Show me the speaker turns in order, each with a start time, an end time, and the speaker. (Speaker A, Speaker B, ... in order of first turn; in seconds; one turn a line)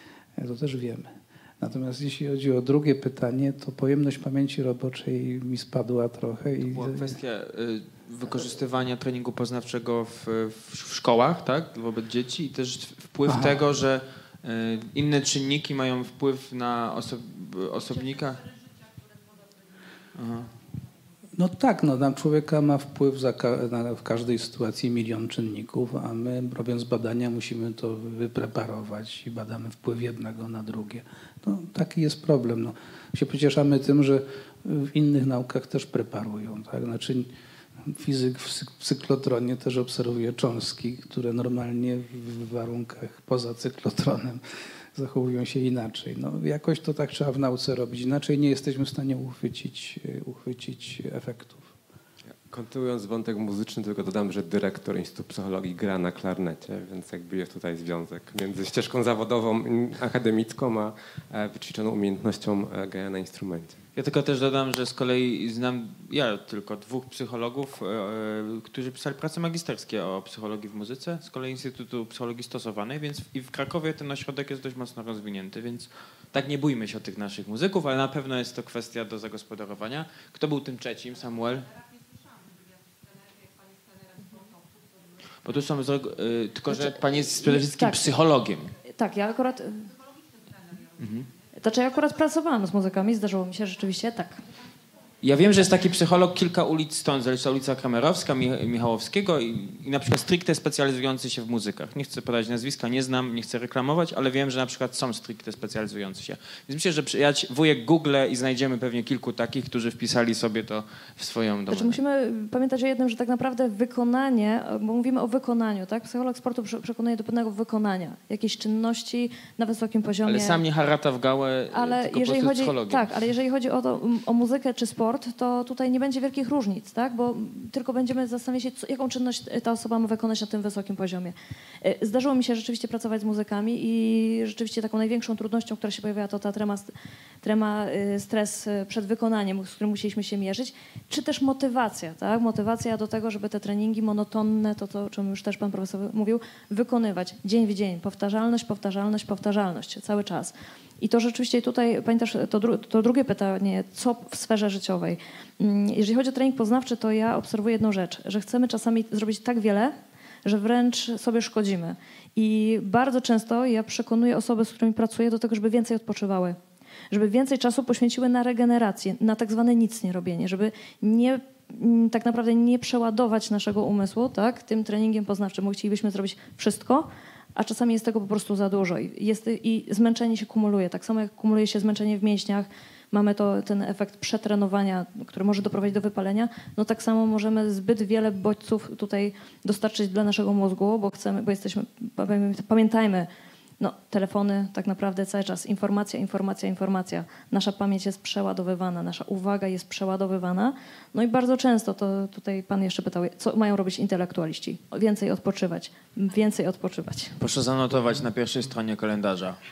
Speaker A: 0.4-7.2
Speaker B: 6.6-18.5
Speaker A: 13.3-13.6
Speaker B: 20.1-20.5
Speaker A: 21.4-37.3
Speaker A: 37.9-44.4
Speaker A: 44.9-51.7
Speaker C: 52.5-63.8
Speaker B: 64.0-81.7
Speaker B: 85.4-88.7
Speaker D: 86.7-88.2
Speaker D: 88.8-89.9
Speaker B: 91.0-91.3
Speaker D: 91.6-94.4
Speaker B: 95.2-112.0
Speaker D: 111.7-120.6
Speaker B: 120.2-123.1
Speaker D: 121.7-136.9
Speaker D: 137.4-166.6
Speaker D: 167.1-193.3
Speaker D: 193.8-207.3
Speaker B: 207.4-209.6